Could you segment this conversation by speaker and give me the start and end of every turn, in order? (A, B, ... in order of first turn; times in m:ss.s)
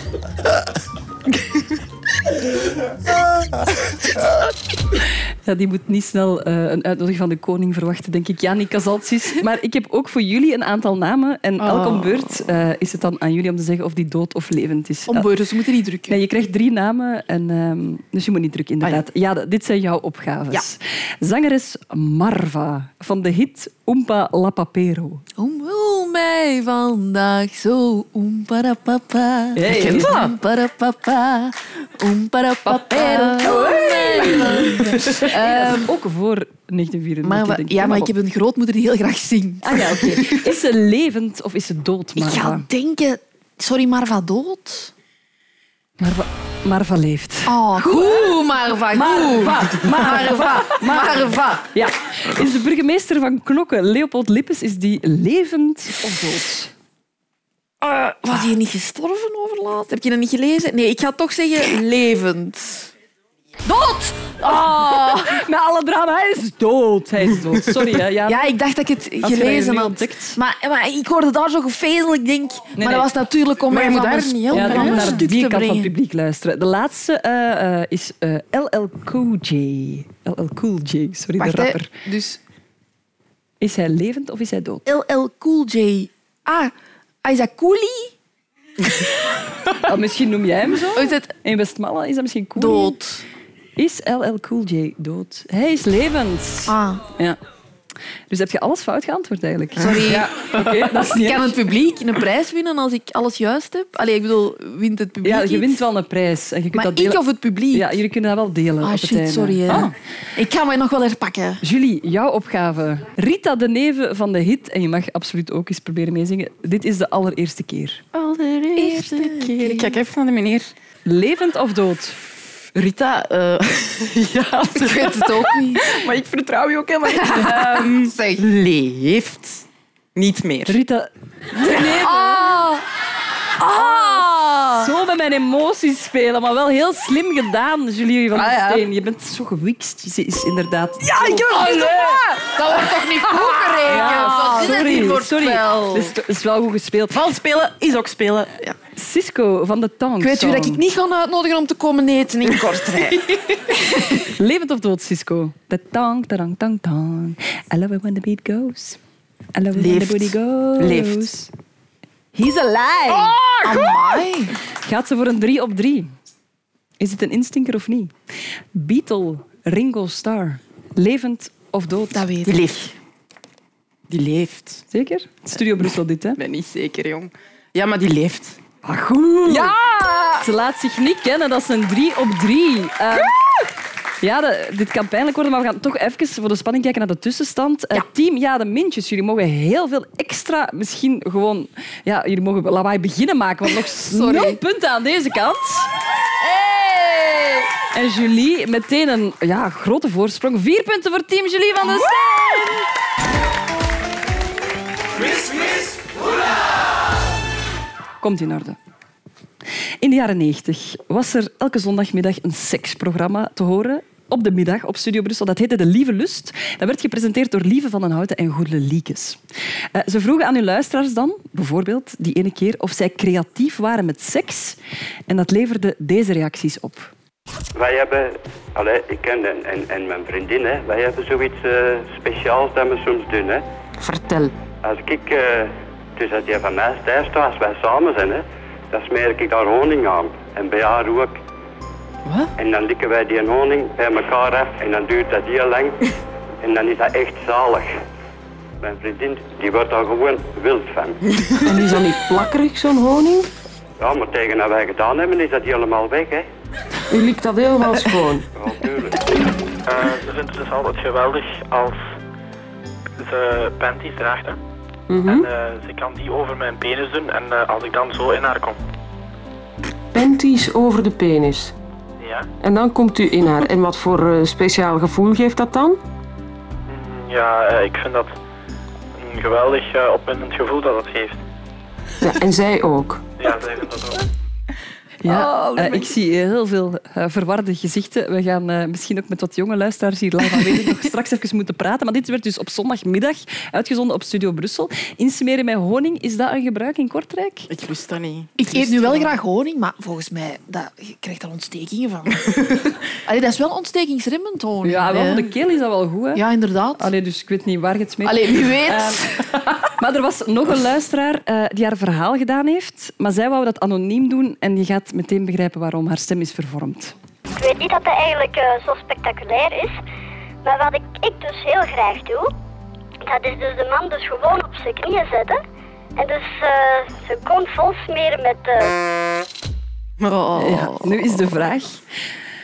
0:05.4-0:15.2 A
0:11.6-0:12.2 B
0:15.1-0:16.2 C
0:16.1-0:25.2 A
0:25.4-0:35.9 C
0:29.5-0:30.3 A
0:29.7-0:30.3 B
0:32.6-0:38.1 A
0:37.2-0:40.3 C
0:39.6-0:42.7 A
0:42.2-0:44.9 C
0:46.0-0:48.4 A
0:47.4-0:51.6 C
0:48.9-0:56.7 A
0:57.8-1:02.9 C
1:03.6-1:05.4 C
1:04.6-1:08.5 A
1:08.3-1:15.9 C
1:09.2-1:10.4 A
1:12.8-1:13.1 A
1:13.7-1:15.2 B
1:14.5-1:21.9 A
1:21.4-1:22.4 C
1:23.6-1:24.8 A
1:24.8-1:26.7 C
1:27.2-1:28.1 C
1:29.8-1:33.0 A
1:30.9-1:31.3 C
1:32.6-1:33.2 C
1:33.8-1:37.4 A
1:36.7-1:37.0 C
1:38.3-1:41.6 A
1:39.8-1:45.8 C
1:45.2-1:47.2 A
1:46.7-1:48.0 C
1:47.7-1:49.9 A
1:48.8-1:51.6 C
1:51.6-1:58.0 A
1:58.1-2:00.7 B
1:58.8-2:00.0 C
2:01.0-2:02.4 A
2:02.7-2:09.6 B
2:04.7-2:05.9 C
2:07.2-2:08.4 C
2:10.1-2:10.7 B
2:10.7-2:12.5 A
2:11.7-2:12.8 C
2:13.7-2:22.1 A
2:13.8-2:14.8 C
2:18.3-2:18.8 B
2:21.0-2:22.4 B
2:21.2-2:26.1 C
2:23.3-2:24.9 B
2:23.8-2:27.2 A
2:27.1-2:28.7 B
2:28.9-2:30.8 A
2:30.2-2:34.2 C
2:32.5-2:33.2 B
2:34.4-2:39.0 A
2:39.5-2:41.5 A
2:39.7-2:41.3 B
2:42.3-2:43.9 A
2:43.6-2:44.5 C
2:44.8-2:46.1 A
2:47.0-2:48.1 A
2:48.7-2:52.3 A
2:52.1-2:52.6 C
2:52.4-2:52.9 B
2:54.1-2:54.8 B
2:54.9-2:56.4 A
2:56.4-2:58.6 B
2:58.8-2:59.8 A
2:59.5-3:00.3 B
3:00.4-3:03.4 A
3:04.2-3:15.9 A
3:14.1-3:14.6 C
3:16.7-3:17.4 C
3:17.9-3:22.8 A
3:28.2-3:28.8 A
3:30.0-3:39.4 A
3:39.9-3:44.8 A
3:45.3-3:47.1 A
3:47.7-3:53.6 D
3:54.0-3:54.5 E
3:54.8-4:01.4 D
4:02.2-4:02.5 B
4:02.6-4:06.0 D
4:06.6-4:07.9 D
4:08.8-4:11.2 D
4:11.6-4:13.5 E
4:14.0-4:16.5 D
4:17.1-4:18.5 E
4:18.5-4:19.2 D
4:19.9-4:22.1 F
4:23.2-4:24.6 F
4:25.1-4:25.5 E
4:25.2-4:28.8 F
4:30.1-4:31.7 E
4:32.2-4:32.5 F
4:32.6-4:36.0 E
4:36.9-4:38.4 F
4:39.2-4:41.4 F
4:42.2-4:43.2 E
4:43.4-4:44.2 F
4:45.2-4:57.7 A
4:45.3-4:46.1 B
4:57.7-4:59.4 B
4:58.6-5:02.5 C
5:02.4-5:02.8 B
5:03.2-5:05.5 C
5:04.8-5:06.4 A
5:06.3-5:07.1 C
5:07.0-5:17.1 A
5:08.2-5:09.4 C
5:17.6-5:20.0 G
5:20.6-5:22.5 G
5:23.2-5:25.6 G
5:26.2-5:28.9 G
5:30.2-5:31.4 B
5:30.6-5:32.0 A